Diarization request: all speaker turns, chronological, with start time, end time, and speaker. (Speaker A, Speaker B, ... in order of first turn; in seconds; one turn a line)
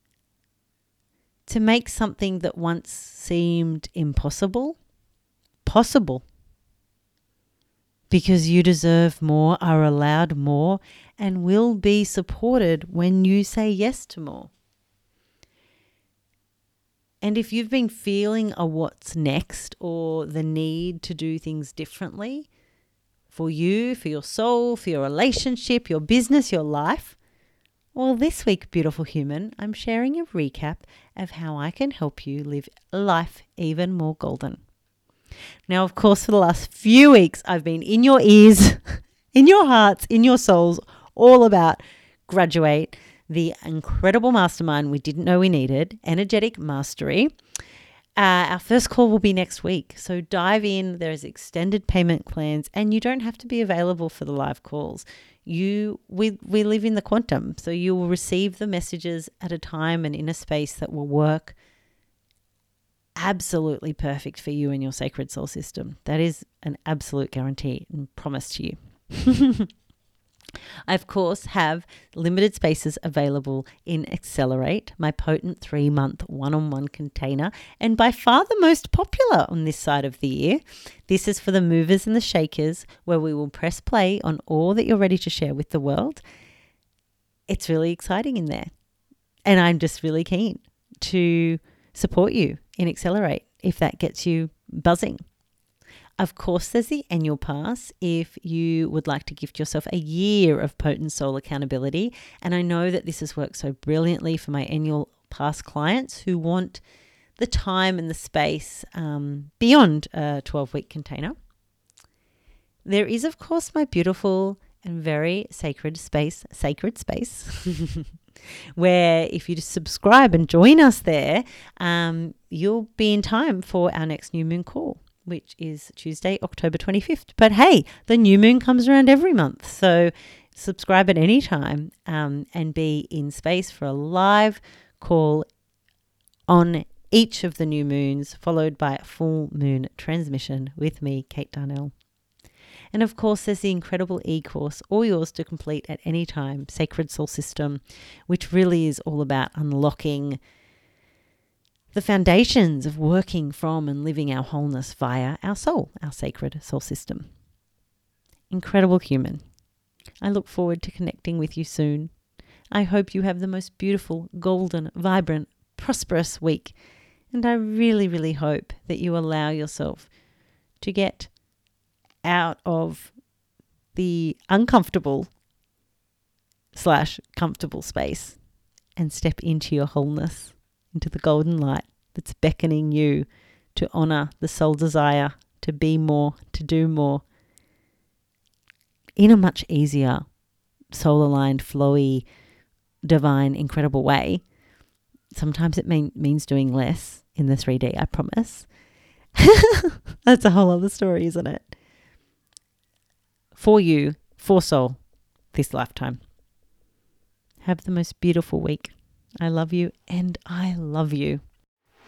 Speaker A: 1.5-4.8
Speaker A: 5.6-6.2
Speaker A: 8.1-14.5
Speaker A: 17.2-22.5
Speaker A: 23.3-27.2
Speaker A: 27.9-34.6
Speaker A: 35.7-47.3
Speaker A: 48.2-61.6
Speaker A: 63.2-69.7
Speaker A: 70.8-86.2
Speaker A: 87.5-88.7
Speaker A: 89.5-95.2
Speaker A: 96.2-106.8
Speaker A: 107.4-111.3
Speaker A: 112.8-118.1
Speaker A: 118.7-135.4
Speaker A: 136.5-141.9
Speaker A: 142.9-150.4
Speaker A: 151.9-157.3
Speaker A: 158.5-159.4
Speaker A: 160.2-162.1
Speaker A: 162.7-166.8
Speaker A: 167.3-170.1
Speaker A: 170.8-171.3
Speaker A: 172.2-173.1
Speaker A: 173.9-175.3
Speaker A: 176.7-178.4
Speaker A: 178.9-187.2
Speaker A: 189.2-190.3
Speaker A: 190.9-192.2
Speaker A: 193.0-194.4
Speaker A: 195.3-198.7
Speaker A: 199.3-201.7
Speaker A: 203.5-206.2
Speaker A: 207.6-211.4